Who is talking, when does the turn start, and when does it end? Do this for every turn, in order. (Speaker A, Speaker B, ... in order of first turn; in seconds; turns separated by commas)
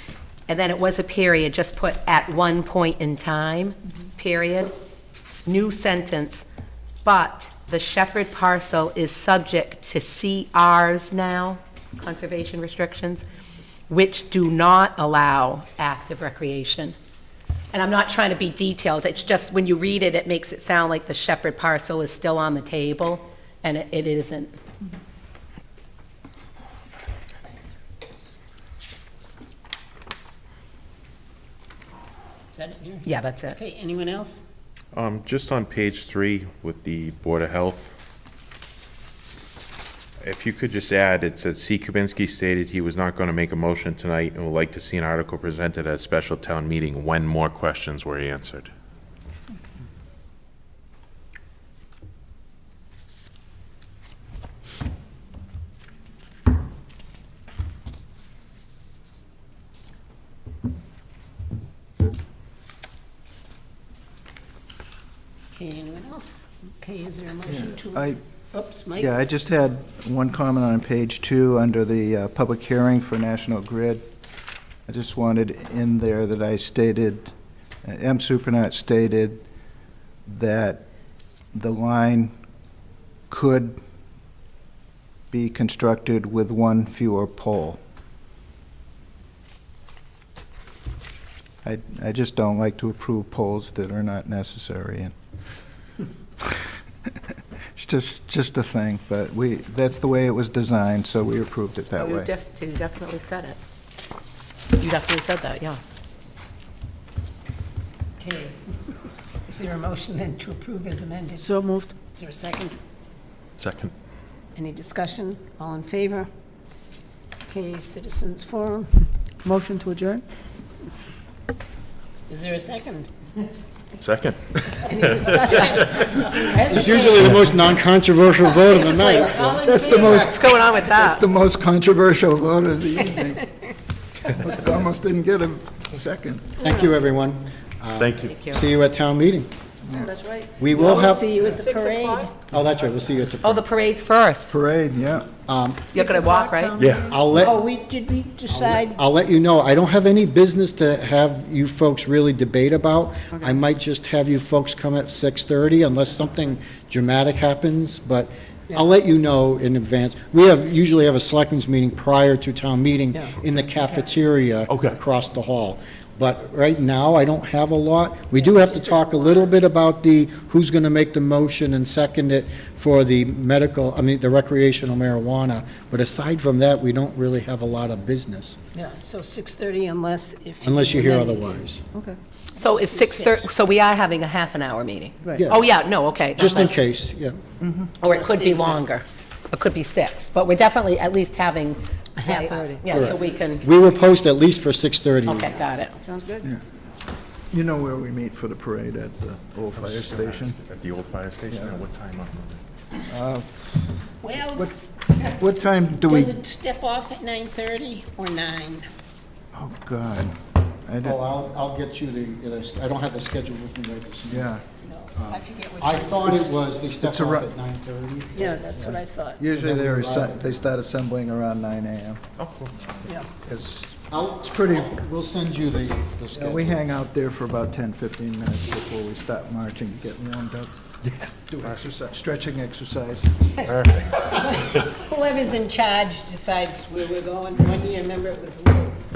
Speaker A: 0.5-4.7, Speaker A: 5.5-6.4, Speaker A: 7.0-13.2, Speaker A: 13.9-16.9, Speaker A: 17.7-24.5, Speaker B: 32.5-34.4, Speaker A: 33.0-33.6, Speaker C: 34.9-37.9, Speaker C: 40.2-48.7, Speaker B: 65.5-69.2, Speaker D: 67.5-68.2, Speaker D: 69.0-74.1, Speaker D: 74.9-79.4, Speaker D: 80.2-80.8, Speaker D: 81.5-82.3, Speaker D: 83.3-83.8, Speaker D: 85.3-87.8, Speaker D: 91.6-95.1, Speaker D: 96.4-96.8, Speaker D: 97.7-102.3, Speaker A: 102.0-103.6, Speaker A: 104.8-105.8, Speaker B: 108.2-112.8, Speaker E: 111.3-112.0, Speaker C: 113.6-113.9, Speaker B: 114.5-116.3, Speaker B: 117.5-119.0, Speaker E: 119.4-120.2, Speaker B: 122.3-123.1, Speaker C: 124.0-126.0, Speaker B: 124.7-127.3, Speaker F: 126.6-129.7, Speaker B: 128.5-130.4, Speaker D: 129.6-133.5, Speaker A: 129.9-131.2, Speaker D: 134.2-136.5, Speaker F: 136.6-139.5, Speaker C: 138.0-138.3, Speaker A: 138.2-138.7, Speaker E: 139.9-142.3, Speaker F: 140.6-141.5, Speaker B: 140.7-142.4, Speaker F: 142.5-143.6, Speaker A: 143.4-144.5, Speaker D: 144.5-145.3, Speaker F: 145.5-146.0, Speaker E: 145.9-147.3, Speaker A: 145.9-146.8, Speaker C: 146.8-147.1, Speaker F: 147.0-147.6, Speaker B: 147.3-149.0, Speaker F: 148.5-178.6, Speaker B: 163.1-164.1, Speaker C: 164.7-165.0, Speaker B: 168.3-169.6, Speaker B: 178.7-181.8, Speaker F: 180.6-181.8, Speaker A: 182.6-186.9, Speaker B: 182.6-183.5, Speaker F: 185.3-185.6, Speaker F: 186.4-187.4, Speaker D: 187.6-187.9, Speaker A: 188.0-193.7, Speaker B: 188.0-188.8, Speaker E: 192.2-193.0, Speaker F: 192.9-195.5, Speaker A: 195.2-196.0, Speaker E: 196.0-196.5, Speaker D: 197.5-200.6, Speaker C: 199.8-202.6, Speaker D: 201.5-201.8, Speaker D: 203.1-206.4, Speaker B: 204.2-204.7, Speaker B: 206.0-208.9, Speaker D: 209.5-211.2, Speaker F: 211.0-214.5, Speaker D: 214.3-214.6, Speaker B: 214.8-216.7, Speaker F: 215.1-218.8, Speaker D: 216.9-217.5, Speaker B: 218.3-219.4, Speaker D: 218.7-222.2, Speaker F: 219.5-220.6, Speaker C: 222.4-223.1, Speaker D: 223.4-224.9, Speaker F: 224.1-226.8, Speaker D: 226.3-233.7, Speaker C: 233.7-234.4, Speaker B: 234.2-239.0